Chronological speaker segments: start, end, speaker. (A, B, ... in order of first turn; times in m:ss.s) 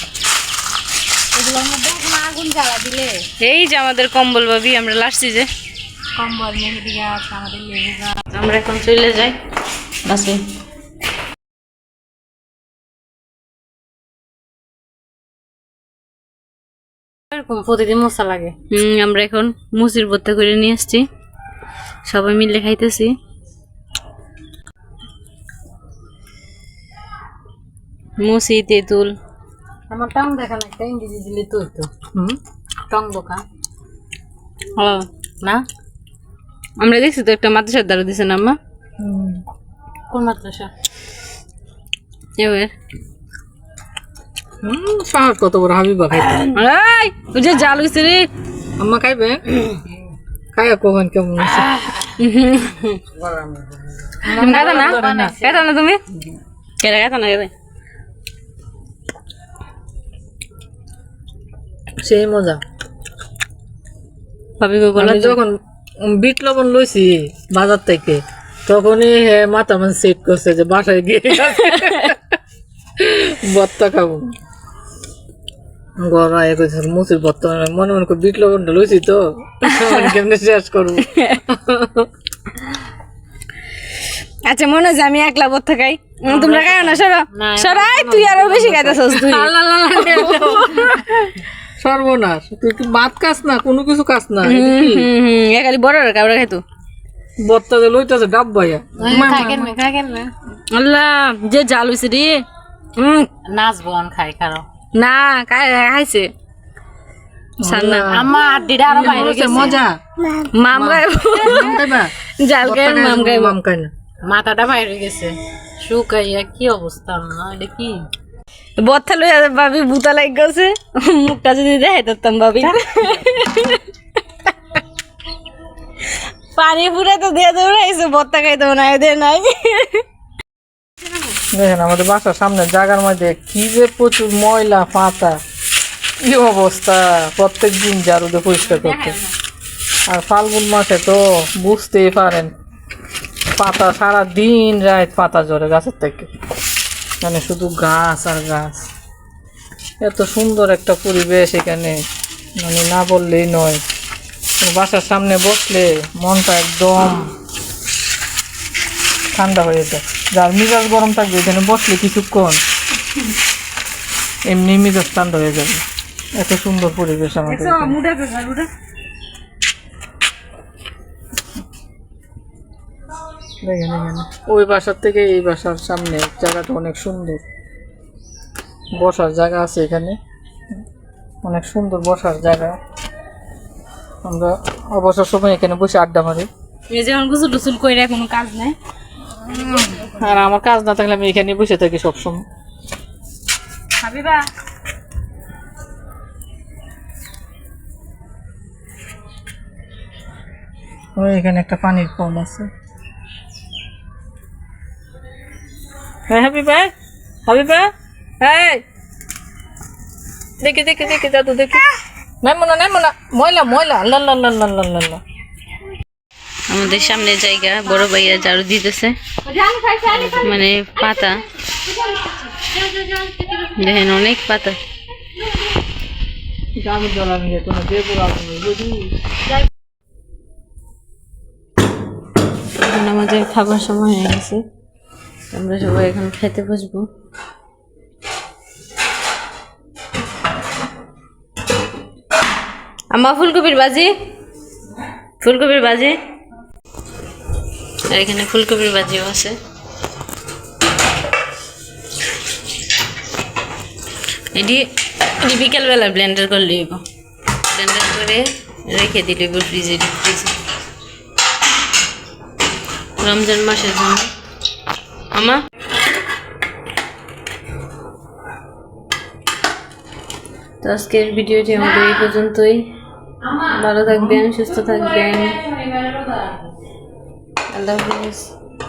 0:01.3-0:03.3 A
0:03.4-0:05.5 B
0:06.2-0:08.2 A
0:08.3-0:09.4 B
0:10.0-0:10.4 B
0:17.3-0:18.6 A
0:18.7-0:21.1 B
0:22.1-0:23.2 B
0:28.2-0:29.2 B
0:29.9-0:31.9 A
0:32.9-0:33.4 A
0:34.8-0:35.1 B
0:36.8-0:38.6 B
0:39.0-0:39.4 C
0:40.1-0:40.7 A
0:42.4-0:42.7 B
0:44.6-0:46.5 C
0:46.5-0:48.3 B
0:48.8-0:49.6 C
0:50.5-0:51.7 C
0:52.1-0:53.0 B
0:54.2-0:55.6 A
0:54.3-0:56.0 B
0:54.4-0:55.3 C
0:56.8-0:57.5 B
1:02.0-1:02.6 C
1:04.6-1:05.4 B
1:05.0-1:12.2 C
1:11.7-1:12.1 B
1:13.0-1:14.3 C
1:16.0-1:21.1 C
1:19.6-1:20.2 B
1:21.0-1:21.7 B
1:24.4-1:31.1 B
1:26.3-1:29.2 A
1:29.1-1:35.1 C
1:34.4-1:36.6 B
1:37.4-1:39.8 C
1:39.0-1:40.3 A
1:40.7-1:42.4 B
1:43.0-1:43.3 B
1:43.4-1:44.6 A
1:45.0-1:46.3 B
1:47.6-1:50.0 C
1:47.6-1:48.2 B
1:48.1-1:49.8 A
1:49.0-1:49.8 B
1:50.3-1:51.8 B
1:50.7-1:53.9 C
1:52.4-1:53.6 B
1:54.3-1:58.1 A
1:58.8-2:03.8 B
2:06.5-2:10.0 B
2:11.5-2:15.4 C
2:16.2-2:19.2 C
2:18.7-2:19.2 A
2:20.1-2:22.5 C
2:23.6-2:26.3 C
2:27.2-2:28.9 C
2:30.0-2:32.0 C
2:32.6-2:33.8 C
2:34.6-2:37.3 C
2:39.3-2:42.6 C
2:44.5-2:45.8 C
2:46.4-2:48.0 C
2:47.4-2:48.7 B
2:53.6-2:57.4 C
2:59.0-3:00.2 C
3:01.4-3:02.8 C
3:04.2-3:06.5 C
3:06.9-3:08.8 B
3:09.5-3:12.4 C
3:09.8-3:10.2 A
3:14.0-3:14.5 B
3:21.2-3:22.7 C
3:26.3-3:26.9 C
3:27.5-3:27.9 C
3:28.4-3:28.8 C
3:30.6-3:31.8 C
3:32.4-3:35.2 C
3:36.7-3:39.2 B
3:39.4-3:40.5 A
3:40.2-3:41.4 B
3:41.9-3:43.6 A
3:43.6-3:44.8 B
3:46.8-3:49.1 C
3:52.8-3:54.6 B
3:55.5-3:57.1 B
4:03.1-4:04.1 B
4:05.4-4:06.2 B
4:08.1-4:09.6 B
4:14.5-4:14.9 B
4:15.4-4:17.0 B
4:17.7-4:20.6 B
4:23.2-4:24.3 B
4:25.3-4:25.6 B
4:30.8-4:32.9 B
4:33.4-4:33.8 A
4:33.6-4:35.6 B
4:34.1-4:34.4 C
4:34.6-4:36.7 A
4:37.7-4:38.5 B